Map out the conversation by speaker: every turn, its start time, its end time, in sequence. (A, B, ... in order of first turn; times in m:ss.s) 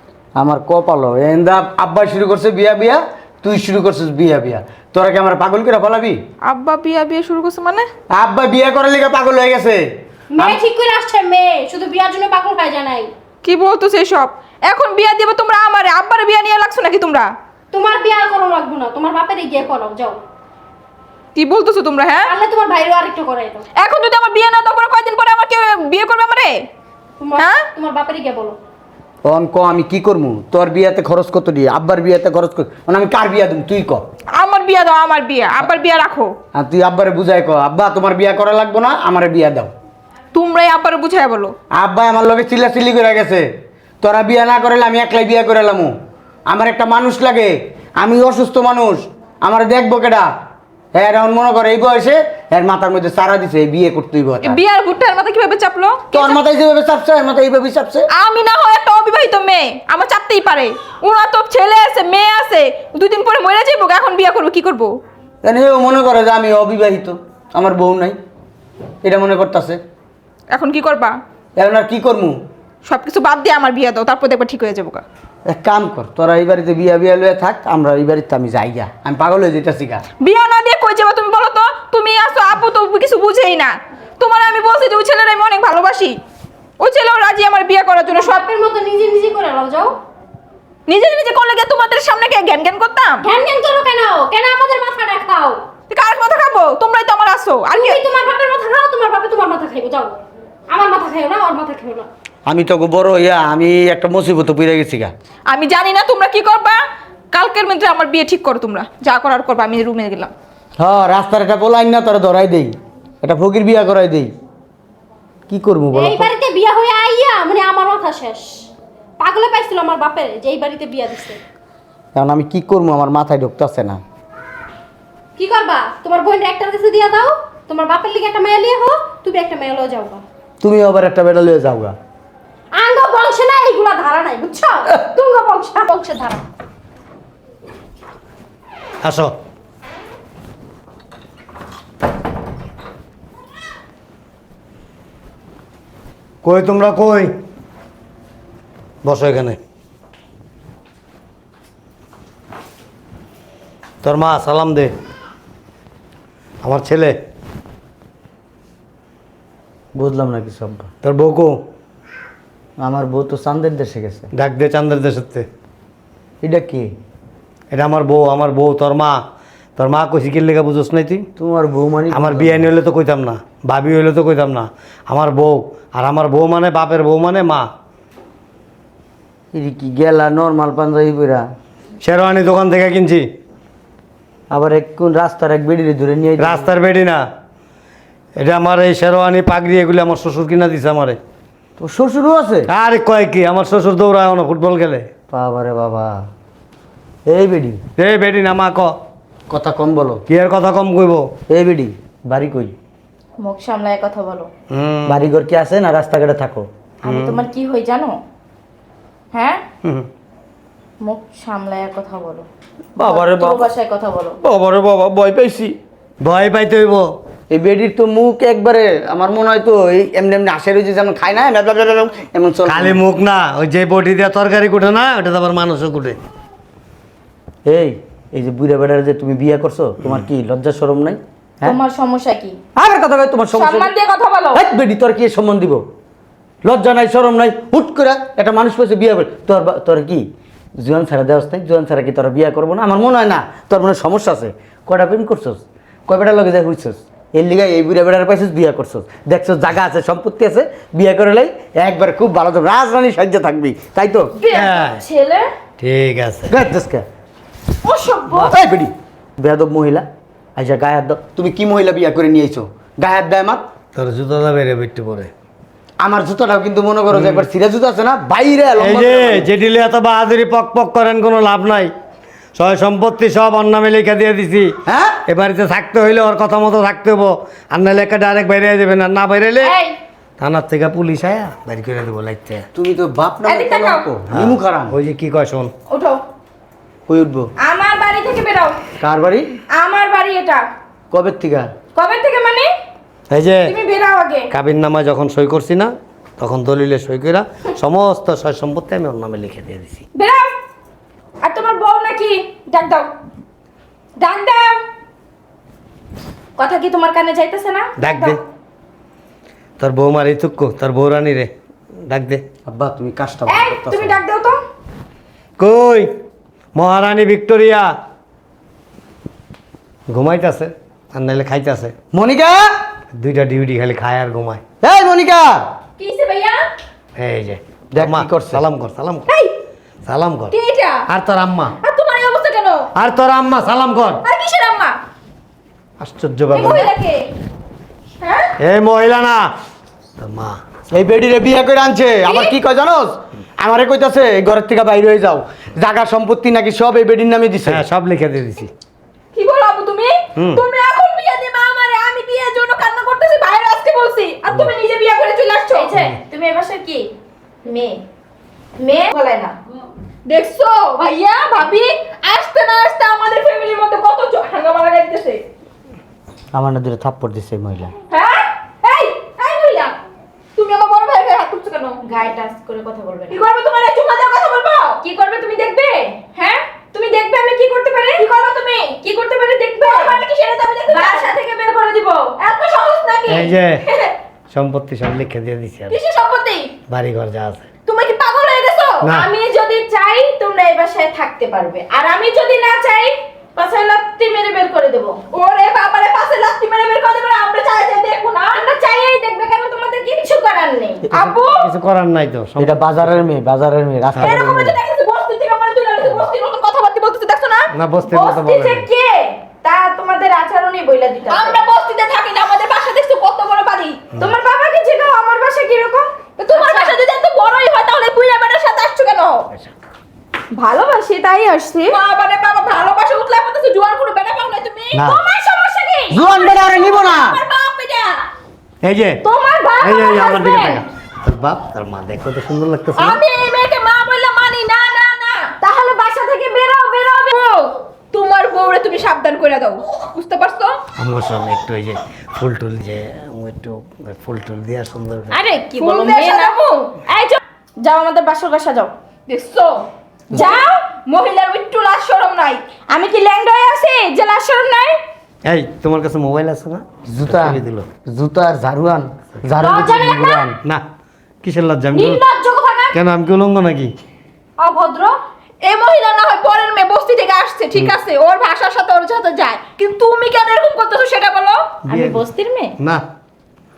0:00.4-0:06.2 A
0:06.4-0:07.9 B
0:08.1-0:09.8 A
0:10.3-0:13.1 C
0:13.4-0:17.3 B
0:17.7-0:20.2 C
0:21.4-0:22.3 B
0:22.2-0:23.7 C
0:23.8-0:26.7 B
0:27.2-0:28.6 C
0:29.2-0:34.0 A
0:34.4-0:36.3 B
0:36.5-0:39.7 A
0:40.3-0:41.6 B
0:41.7-0:43.5 A
0:44.0-0:45.9 A
0:46.5-0:50.3 A
0:51.0-0:54.6 A
0:54.4-0:56.4 B
0:56.1-0:58.1 A
0:58.1-1:05.0 B
1:05.4-1:08.2 A
1:09.0-1:09.8 A
1:10.5-1:11.2 B
1:11.6-1:12.4 A
1:12.8-1:15.0 B
1:15.5-1:20.0 A
1:20.2-1:26.2 B
1:26.8-1:28.4 B
1:28.2-1:29.9 C
1:30.9-1:33.2 B
1:33.2-1:35.6 C
1:35.9-1:38.0 B
1:37.8-1:40.2 C
1:40.7-1:42.1 C
1:42.5-1:45.1 A
1:45.5-1:46.8 B
1:47.3-1:50.3 B
1:50.8-1:54.3 A
1:55.5-1:56.3 A
1:55.9-1:58.7 C
1:59.2-2:01.4 C
2:02.2-2:04.0 A
2:05.4-2:10.2 C
2:10.6-2:12.0 A
2:12.8-2:16.4 C
2:19.0-2:19.3 D
2:26.4-2:27.3 D
2:29.0-2:29.6 D
2:34.0-2:34.9 D
2:36.6-2:37.2 D
2:40.0-2:40.9 A
2:41.0-2:41.6 D
2:42.8-2:44.3 A
2:44.3-2:45.5 D
2:46.4-2:46.9 A
2:47.7-2:49.2 D
2:49.8-2:51.3 D
2:51.4-2:52.7 A
2:52.1-2:57.7 D
2:59.5-3:01.5 A
3:02.0-3:03.3 D
3:04.5-3:06.7 A
3:06.4-3:07.2 D
3:08.4-3:11.2 D
3:11.8-3:12.7 A
3:12.7-3:15.1 D
3:15.3-3:16.3 A
3:17.3-3:17.8 A
3:18.0-3:18.9 D
3:19.5-3:20.2 A
3:20.3-3:21.3 D
3:21.5-3:22.8 A
3:23.4-3:24.5 E
3:24.7-3:25.2 D
3:25.1-3:26.7 A
3:27.0-3:28.2 E
3:27.0-3:27.4 D
3:29.3-3:29.6 E
3:29.8-3:30.1 D
3:31.0-3:32.5 E
3:33.0-3:33.7 A
3:33.0-3:34.4 E
3:34.4-3:35.8 A
3:36.2-3:37.1 D
3:37.5-3:43.0 A
3:42.7-3:46.2 D
3:47.7-3:51.8 A
3:51.6-3:52.6 E
3:52.8-3:53.9 A
3:53.5-3:54.6 E
3:53.9-3:54.2 B
3:54.5-3:55.8 A
3:56.6-4:00.3 A
4:00.8-4:14.3 A
4:14.4-4:15.5 E
4:14.5-4:15.0 D
4:15.8-4:16.5 D
4:16.5-4:17.0 A
4:17.8-4:18.6 E
4:18.4-4:23.6 A
4:23.9-4:25.3 D
4:26.0-4:29.5 A
4:27.1-4:27.4 D
4:28.8-4:31.9 D
4:32.6-4:34.8 D
4:34.9-4:35.2 A
4:35.3-4:39.8 D
4:39.6-4:40.0 E
4:40.4-4:42.7 D
4:42.8-4:45.0 A
4:43.5-4:44.1 E
4:44.3-4:45.7 D
4:45.9-4:46.2 E
4:47.1-4:47.5 A
4:47.6-4:48.8 E
4:49.0-4:49.5 A
4:49.7-4:50.6 E
4:51.1-4:51.7 A
4:52.0-4:52.7 E
4:53.3-4:53.8 D
4:53.7-4:54.5 E
4:54.5-5:00.0 D
5:00.2-5:00.5 E
5:01.4-5:03.1 E
5:04.2-5:04.8 E
5:06.6-5:08.4 E
5:08.0-5:08.4 D
5:09.8-5:11.5 D
5:12.1-5:12.4 D
5:12.7-5:14.2 A
5:13.5-5:14.6 E
5:15.6-5:16.1 D
5:16.7-5:17.9 D
5:20.1-5:21.9 D
5:22.1-5:22.7 A
5:23.1-5:24.6 D
5:24.8-5:25.6 A
5:26.0-5:26.6 E
5:27.2-5:29.3 D
5:27.9-5:28.6 A
5:30.1-5:30.5 D
5:30.5-5:31.0 B
5:31.1-5:31.8 D
5:31.8-5:32.8 B
5:33.0-5:34.2 D
5:34.2-5:34.9 B
5:34.3-5:34.9 E
5:36.0-5:36.9 D
5:36.5-5:37.3 B
5:38.2-5:38.5 B
5:38.6-5:39.5 D
5:40.2-5:40.6 D
5:40.9-5:47.8 A
5:47.7-5:48.7 D
5:49.3-5:55.9 B
5:50.4-5:50.6 D
5:55.7-5:57.1 E
5:57.6-5:58.0 E
5:58.8-5:59.6 E
6:00.3-6:05.4 B
6:06.5-6:07.9 A
6:08.1-6:10.0 B
6:10.6-6:12.0 B
6:12.0-6:13.4 E
6:13.3-6:15.0 B
6:15.0-6:16.3 E
6:16.4-6:19.0 B
6:17.8-6:18.3 E
6:19.0-6:20.2 E
6:19.8-6:21.3 B
6:20.9-6:22.4 E
6:22.4-6:24.1 B
6:23.3-6:23.8 D
6:24.5-6:26.0 D
6:25.9-6:26.7 B
6:26.9-6:27.7 D
6:27.9-6:29.0 B
6:29.0-6:29.3 D
6:29.0-6:35.2 E
6:35.3-6:38.5 B
6:38.3-6:41.1 E
6:41.1-6:41.7 B
6:41.5-6:43.2 D
6:42.6-6:44.8 A
6:44.2-6:47.7 B
6:47.7-6:48.9 D
6:48.1-6:51.6 E
6:51.3-6:54.1 B
6:54.2-6:57.0 E
6:56.4-6:59.5 B
7:00.5-7:02.0 E
7:01.9-7:05.1 B
7:04.9-7:05.2 D
7:05.1-7:06.2 E
7:06.1-7:07.4 A
7:06.2-7:08.2 B
7:08.8-7:09.2 D
7:09.2-7:10.8 E
7:09.6-7:09.9 B
7:09.8-7:13.2 D
7:13.0-7:15.6 B
7:15.6-7:17.4 E
7:17.3-7:20.8 B
7:21.0-7:25.4 D
7:25.3-7:28.9 E
7:25.8-7:26.9 B
7:29.3-7:32.7 B
7:30.3-7:30.6 A
7:30.3-7:30.8 E
7:32.9-7:35.0 E
7:35.4-7:37.9 D
7:37.1-7:40.6 A
7:39.5-7:39.9 D
7:39.6-7:40.5 C
7:41.4-7:42.2 D
7:42.2-7:42.9 C
7:42.9-7:43.9 D
7:44.6-7:45.2 C
7:45.6-7:51.7 B
7:51.9-7:52.8 E
7:51.9-7:52.3 D
7:52.8-7:53.0 D